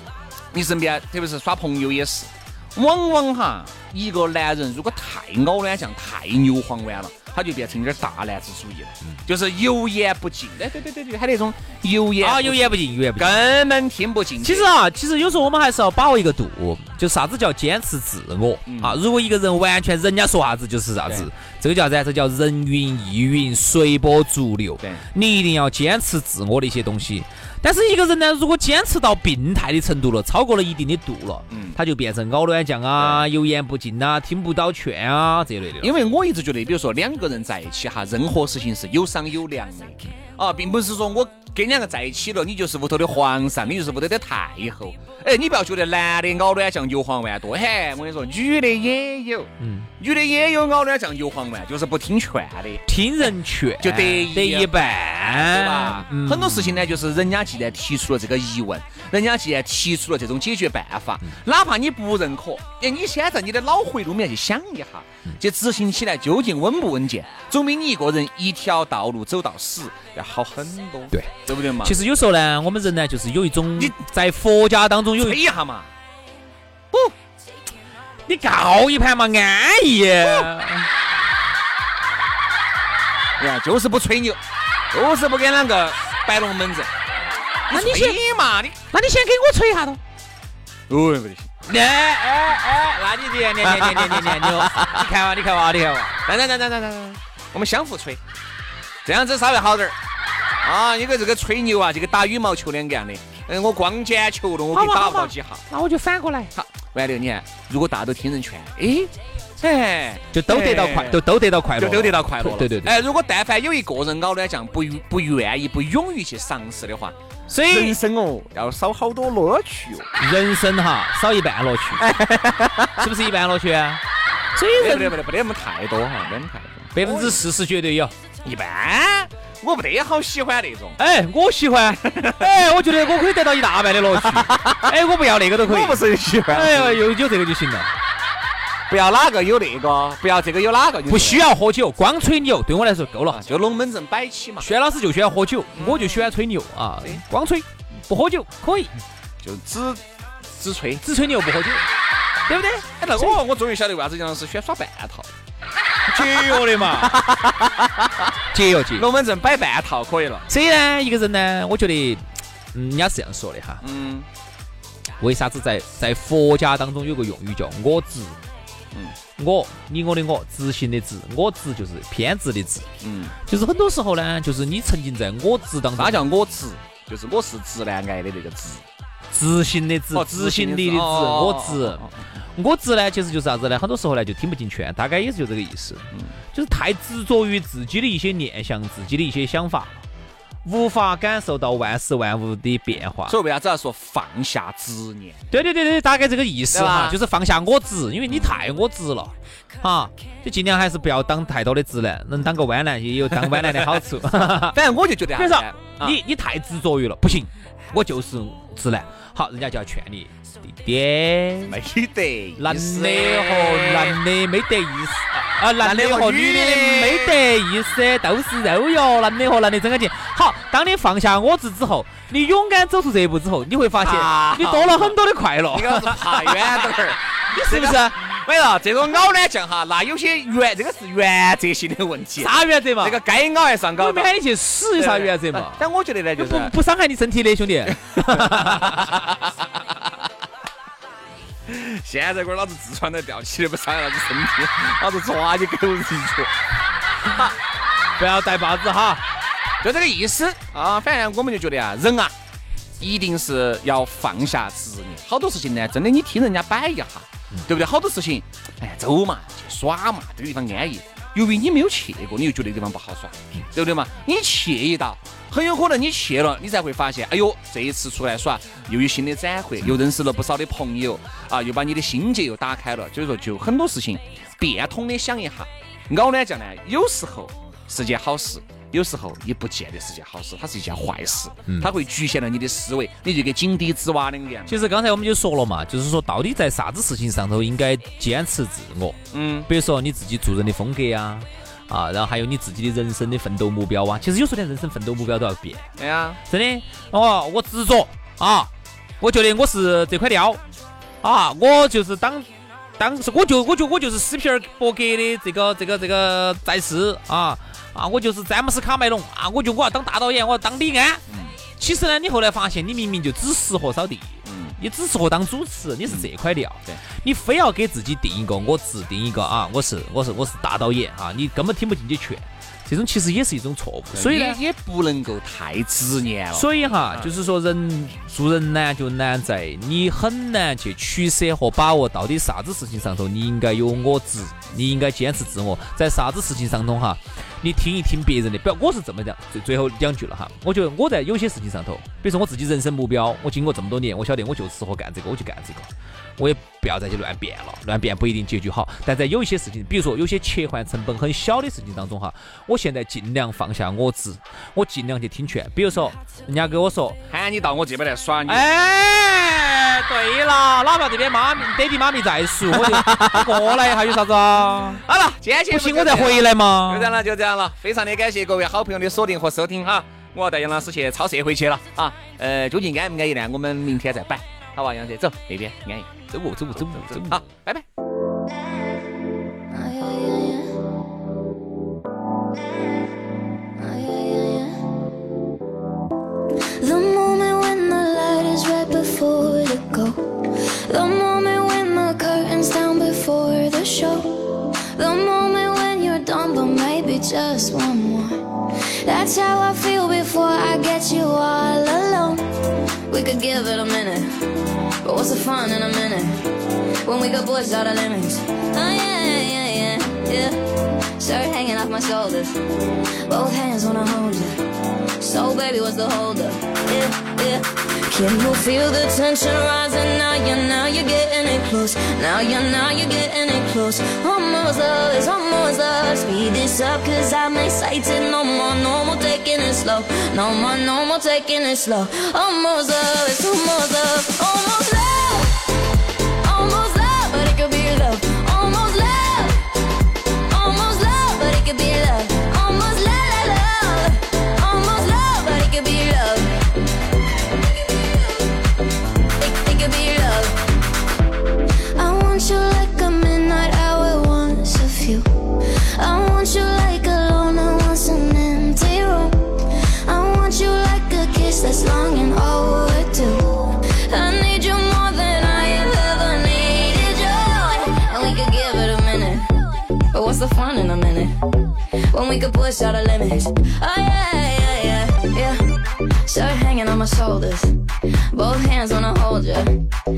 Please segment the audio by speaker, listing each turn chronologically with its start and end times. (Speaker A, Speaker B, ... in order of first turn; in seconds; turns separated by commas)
Speaker A: 0.5-14.7, Speaker B: 12.2-13.4, Speaker B: 14.4-35.9, Speaker A: 18.7-19.0, Speaker A: 31.5-31.8, Speaker A: 33.0-33.3, Speaker A: 35.8-52.8, Speaker B: 49.6-49.9, Speaker B: 52.9-57.0, Speaker A: 53.8-72.0, Speaker B: 71.8-75.4, Speaker A: 75.2-75.9, Speaker B: 78.3-80.9, Speaker A: 80.2-80.5, Speaker A: 83.4-84.4, Speaker A: 84.9-86.9, Speaker A: 87.7-88.8, Speaker B: 87.7-88.2, Speaker B: 88.9-90.0, Speaker A: 90.9-91.5, Speaker B: 91.7-96.2, Speaker A: 93.6-94.9, Speaker A: 96.2-98.2, Speaker A: 99.0-100.0, Speaker A: 100.6-105.6, Speaker B: 104.7-106.5, Speaker A: 106.5-111.2, Speaker B: 110.3-113.0, Speaker A: 111.8-117.1, Speaker B: 117.5-118.0, Speaker A: 117.7-120.1, Speaker B: 120.2-122.0, Speaker A: 122.0-123.1, Speaker B: 123.0-124.0, Speaker B: 124.5-125.2, Speaker A: 124.7-127.4, Speaker B: 126.9-128.1, Speaker A: 128.4-131.0, Speaker B: 131.0-137.9, Speaker A: 131.9-132.6, Speaker A: 134.2-134.9, Speaker A: 135.6-137.0, Speaker A: 138.9-141.4, Speaker B: 141.1-143.4, Speaker A: 143.3-144.7, Speaker B: 144.6-148.9, Speaker A: 145.7-146.4, Speaker A: 149.4-150.0, Speaker A: 150.5-151.0, Speaker B: 151.0-151.8, Speaker B: 152.5-153.4, Speaker A: 153.0-155.3, Speaker B: 156.1-157.2, Speaker A: 156.2-158.3, Speaker B: 158.5-159.1, Speaker A: 158.9-160.5, Speaker B: 160.5-162.2, Speaker B: 162.7-163.8, Speaker A: 163.8-164.3, Speaker B: 165.2-168.4, Speaker B: 169.4-172.8, Speaker A: 173.0-173.3, Speaker B: 173.5-176.2, Speaker A: 175.9-178.8, Speaker B: 179.3-182.0, Speaker A: 180.1-182.2, Speaker B: 182.6-190.0, Speaker B: 190.6-193.4, Speaker A: 193.3-195.4, Speaker B: 195.5-204.8, Speaker A: 196.7-197.2, Speaker A: 198.3-198.6, Speaker A: 203.3-204.0, Speaker A: 204.6-206.2, Speaker B: 205.3-211.8, Speaker A: 211.7-214.2, Speaker B: 212.6-226.8, Speaker A: 215.8-217.4, Speaker A: 224.0-225.2, Speaker A: 225.7-234.3, Speaker B: 227.6-228.1, Speaker B: 232.4-233.2, Speaker B: 234.0-235.8, Speaker A: 234.9-236.7, Speaker B: 236.3-239.2, Speaker A: 238.3-239.3, Speaker A: 241.7-246.5, Speaker B: 248.2-249.2, Speaker A: 249.8-252.3, Speaker A: 253.0-284.8, Speaker B: 284.7-295.8, Speaker A: 289.3-289.7, Speaker A: 296.0-296.4, Speaker B: 296.5-298.7, Speaker B: 299.2-300.6, Speaker B: 301.2-302.5, Speaker B: 303.0-311.2, Speaker A: 311.3-311.6, Speaker B: 311.8-324.6, Speaker A: 314.4-314.8, Speaker A: 324.1-327.3, Speaker B: 326.5-357.2, Speaker A: 357.3-358.6, Speaker B: 358.5-365.0, Speaker A: 362.7-364.0, Speaker A: 365.0-376.1, Speaker B: 365.7-367.2, Speaker B: 376.3-377.4, Speaker A: 377.0-377.8, Speaker C: 379.7-380.7, Speaker C: 383.8-384.8, Speaker C: 386.8-404.3, Speaker C: 405.0-406.3, Speaker C: 407.0-414.6, Speaker C: 415.2-435.6, Speaker C: 436.4-439.6, Speaker C: 440.5-446.5, Speaker C: 447.8-448.4, Speaker C: 449.4-450.6, Speaker C: 451.9-469.5, Speaker C: 470.1-471.4, Speaker C: 472.1-475.6, Speaker C: 476.2-477.7, Speaker C: 478.3-479.7